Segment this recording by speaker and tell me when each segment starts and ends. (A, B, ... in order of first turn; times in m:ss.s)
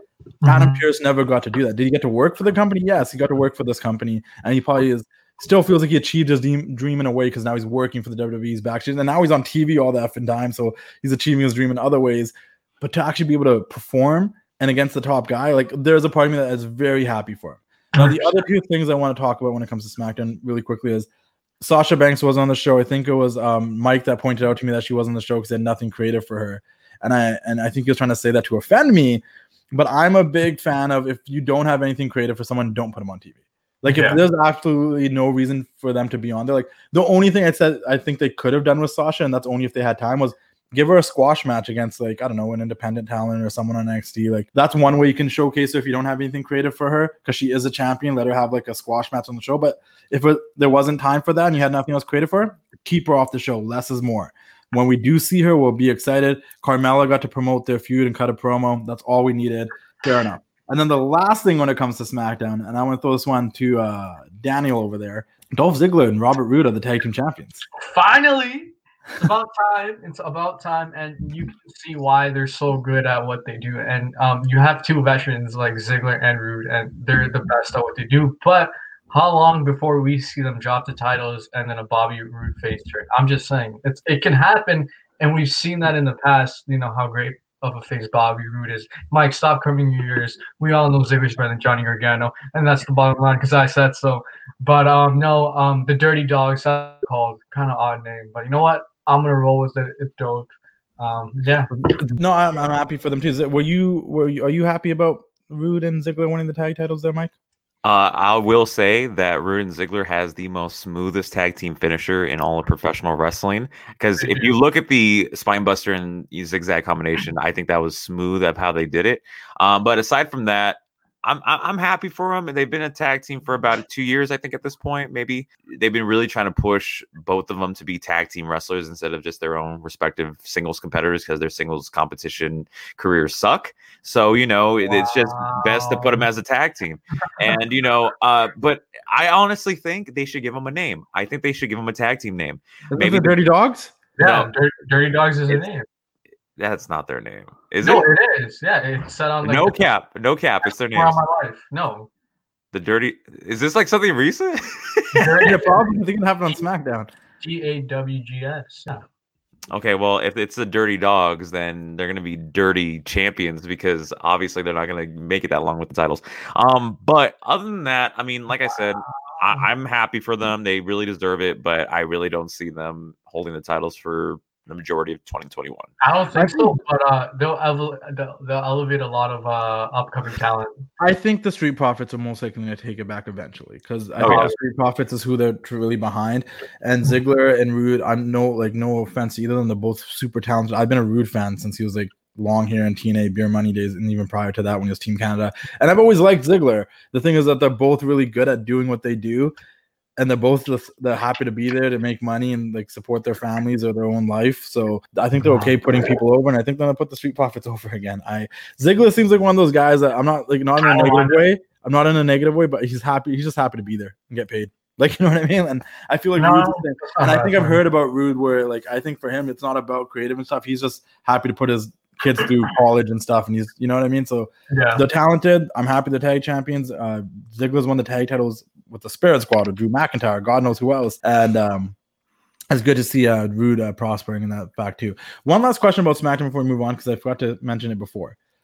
0:00.4-0:00.9 A
0:00.4-0:21.1 B
0:18.0-0:18.4 A
0:21.6-1:07.6 B
0:33.9-0:34.2 A
1:07.8-1:41.7 A
1:41.9-1:47.3 B
1:47.8-2:23.4 C
1:54.2-1:54.5 A
2:14.8-2:16.3 A
2:22.9-2:24.0 B
2:24.2-2:25.9 A
2:24.2-2:24.5 C
2:26.6-2:28.1 C
2:27.8-2:29.8 A
2:29.4-2:31.2 C
2:30.9-2:32.1 A
2:32.7-2:35.5 C
2:35.1-2:35.8 A
2:35.4-2:37.1 B
2:37.4-2:39.0 A
2:39.7-2:55.9 C
2:56.0-3:00.9 A
2:56.4-2:56.8 B
3:01.0-3:19.6 B
3:04.2-3:04.5 C
3:04.2-3:04.6 A
3:20.2-3:52.0 B
3:25.4-3:25.7 A
3:30.8-3:31.4 A
3:36.4-3:37.8 A
3:44.7-3:45.0 A
3:52.7-3:58.4 B